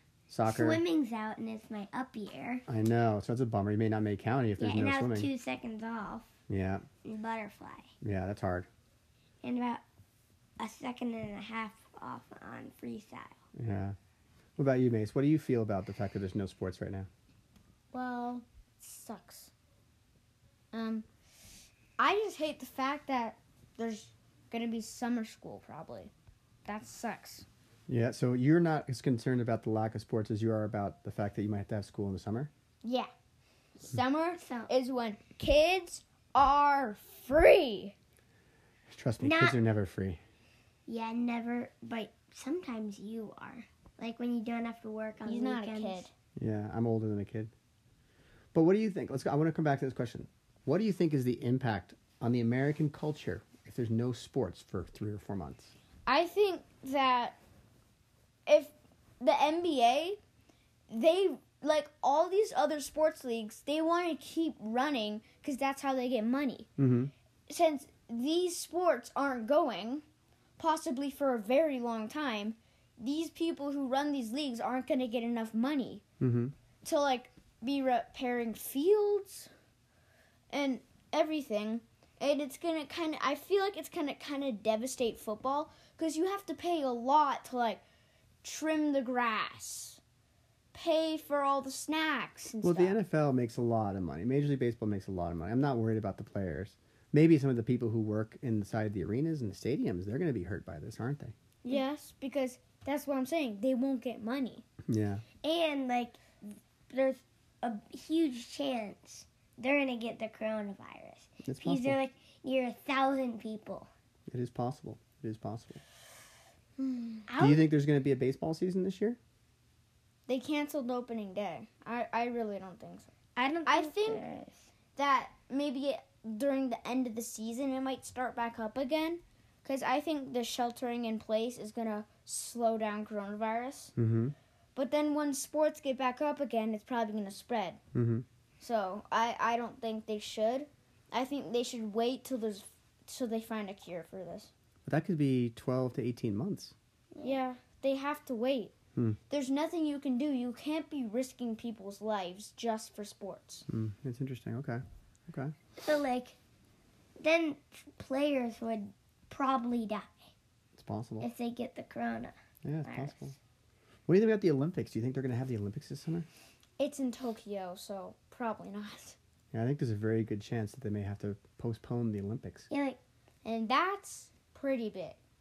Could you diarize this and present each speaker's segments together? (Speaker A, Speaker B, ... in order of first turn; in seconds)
Speaker A: 0.3-0.8, 2.7-5.3, 6.5-6.8, 8.0-8.7, 13.5-13.9, 14.6-17.1, 27.9-32.5, 38.9-40.2, 46.4-47.5, 48.5-55.7, 66.8-67.1, 76.2-76.5, 92.6-101.3, 104.9-105.2, 111.4-112.0, 114.3-115.8, 117.4-119.2, 133.9-134.3, 137.9-138.2, 144.8-146.7, 153.7-155.5, 160.8-161.3, 162.6-163.4, 164.1-166.3, 169.5-172.7
Speaker B: 0.4-2.6, 4.6-6.3, 7.0-7.9, 9.4-9.8, 10.6-13.3, 34.4-34.7, 39.2-39.6, 40.9-46.0, 105.4-113.9, 117.3-117.7, 123.3-124.6, 147.1-147.4, 155.8-156.3, 157.2-160.3, 161.2-163.1, 172.7-173.0
Speaker C: 17.9-19.5, 20.7-21.1, 22.0-26.1, 26.6-27.4, 32.8-33.1, 33.8-37.9, 45.2-46.1, 56.1-57.4, 58.5-60.2, 60.9-66.7, 67.5-70.0, 70.6-76.0, 76.8-79.5, 80.5-87.8, 88.4-90.0, 90.7-93.0, 101.6-104.6, 116.8-117.2, 120.3-123.1, 123.7-124.2, 125.0-133.9, 134.7-137.8, 138.6-144.5, 147.2-148.7, 149.3-153.7, 166.8-169.2, 173.4-175.2